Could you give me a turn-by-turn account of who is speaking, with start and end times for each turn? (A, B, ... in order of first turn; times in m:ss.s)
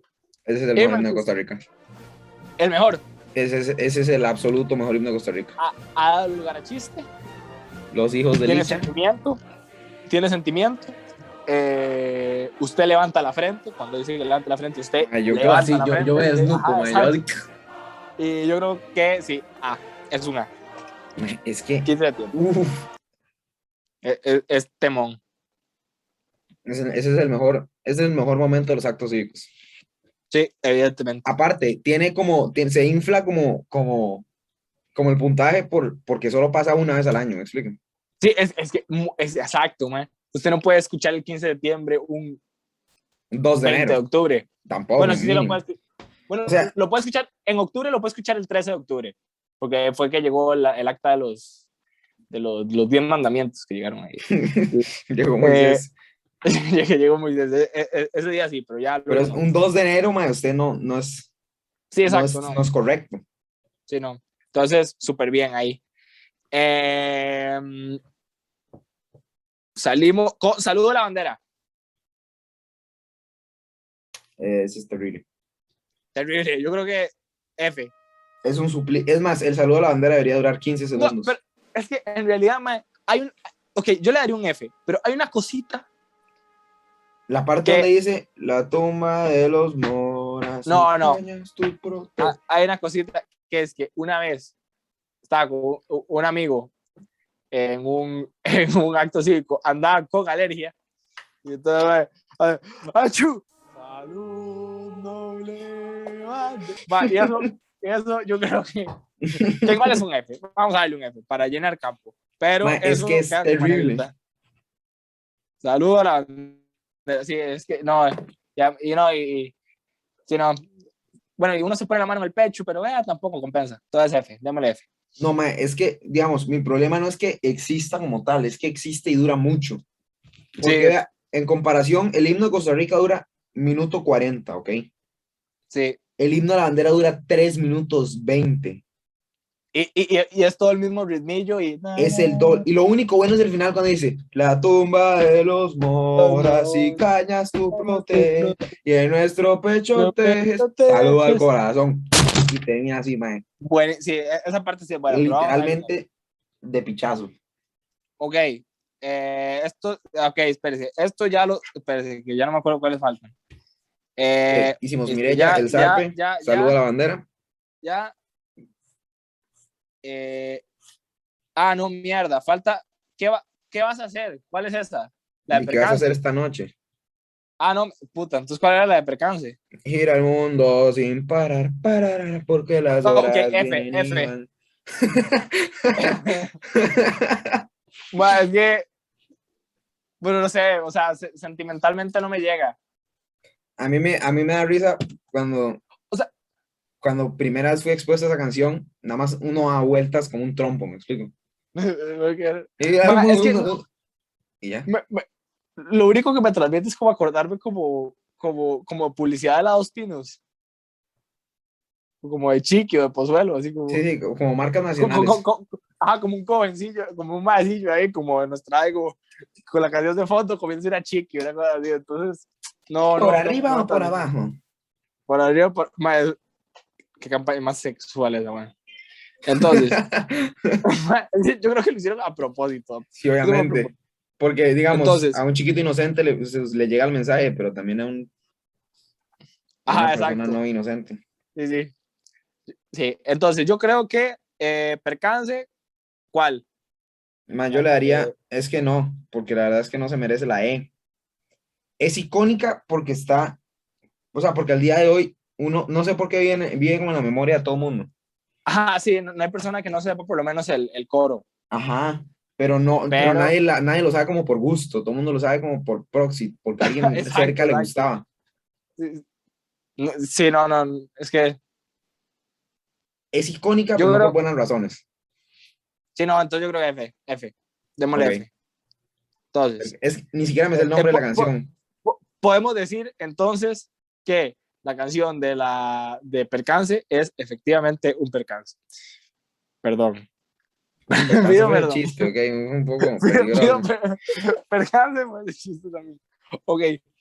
0:00.4-0:01.6 A
0:00.8-0:01.2 B
0:02.6-0:03.0 B
0:03.3-0:05.5 A
0:05.6-0:07.1 B
0:07.9-0:08.9 A
0:08.4-0:09.4 B
0:10.1-0:17.1 B
0:15.0-0:17.3 A
0:18.2-0:20.5 B
0:21.2-0:22.9 A
0:21.8-0:22.3 B
0:24.0-0:25.2 B
0:26.6-0:29.5 A
0:30.3-0:31.2 B
0:31.2-0:34.2 A
0:34.9-0:37.8 A
0:38.2-0:42.4 B
0:43.3-0:44.0 A
0:43.6-0:44.4 B
0:44.6-0:45.6 A
0:45.0-0:45.8 B
0:46.3-0:51.5 B
0:46.4-0:46.7 A
0:52.3-0:54.9 B
0:54.3-0:55.9 A
0:55.4-0:55.8 B
0:56.4-0:59.4 B
0:59.1-1:01.3 A
1:01.9-1:02.6 B
1:02.0-1:03.2 A
1:03.9-1:05.8 B
1:06.5-1:08.0 B
1:09.8-1:11.4 B
1:14.4-1:15.2 A
1:16.1-1:17.9 B
1:18.4-1:21.3 A
1:21.0-1:25.8 B
1:27.3-1:32.4 A
1:30.6-1:31.2 B
1:32.2-1:34.5 B
1:35.2-1:36.7 B
1:37.5-1:40.7 B
1:41.4-1:48.9 B
1:47.0-1:47.3 A
1:49.3-1:50.0 A
1:49.5-1:54.1 B
1:52.6-1:54.1 A
1:55.6-1:59.5 B
2:00.3-2:00.6 B
2:01.4-2:04.8 B
2:05.2-2:09.8 A
2:10.6-2:14.9 A
2:10.6-2:11.0 B
2:15.7-2:16.0 B
2:16.2-2:18.8 A
2:19.7-2:22.6 B
2:22.0-2:33.4 A
2:26.2-2:27.0 B
2:27.7-2:28.6 B
2:29.9-2:31.5 B
2:33.6-2:35.9 B
2:35.1-2:36.1 A
2:36.6-2:37.3 A
2:38.2-2:43.3 B
2:44.2-2:46.8 B
2:44.5-2:47.3 A
2:47.8-2:48.1 B
2:50.0-2:50.6 B
2:51.6-2:56.2 B
2:55.5-2:56.7 A
2:57.6-2:59.6 B
2:59.8-3:04.5 A
3:03.0-3:04.3 B
3:05.0-3:07.6 A
3:06.0-3:06.5 B
3:08.1-3:08.8 B
3:10.2-3:12.8 B
3:13.8-3:15.8 A
3:17.0-3:21.3 A
3:21.8-3:23.7 B
3:22.8-3:23.8 A
3:24.6-3:24.9 A
3:24.9-3:25.2 B
3:25.8-3:30.4 B
3:32.2-3:34.0 B
3:33.9-3:35.4 A
3:35.0-3:44.2 B
3:43.2-3:44.6 A
3:45.3-3:46.4 B
3:47.2-3:48.7 B
3:49.4-3:50.0 B
3:49.5-3:50.8 A
3:50.8-3:53.9 B
3:53.2-3:58.3 A
3:54.9-3:55.4 B
3:59.8-4:00.6 B
3:59.9-4:01.2 A
4:01.6-4:01.9 B
4:02.9-4:05.7 B
4:06.3-4:06.6 B
4:07.5-4:10.9 A
4:07.7-4:08.3 B
4:12.0-4:13.6 A
4:14.3-4:18.1 A
4:18.6-4:21.4 B
4:21.7-4:28.2 A
4:23.1-4:23.5 B
4:26.8-4:28.1 B
4:29.0-4:29.2 B
4:30.0-4:31.6 B
4:33.3-4:35.0 A
4:34.0-4:34.4 B
4:36.2-4:38.5 B
4:38.1-4:38.4 A
4:39.5-4:39.9 B
4:39.8-4:41.7 A
4:40.8-4:41.5 B
4:42.0-4:48.8 B
4:49.8-4:50.2 B
4:51.1-4:53.9 A
4:51.1-4:52.3 B
4:53.2-4:57.0 B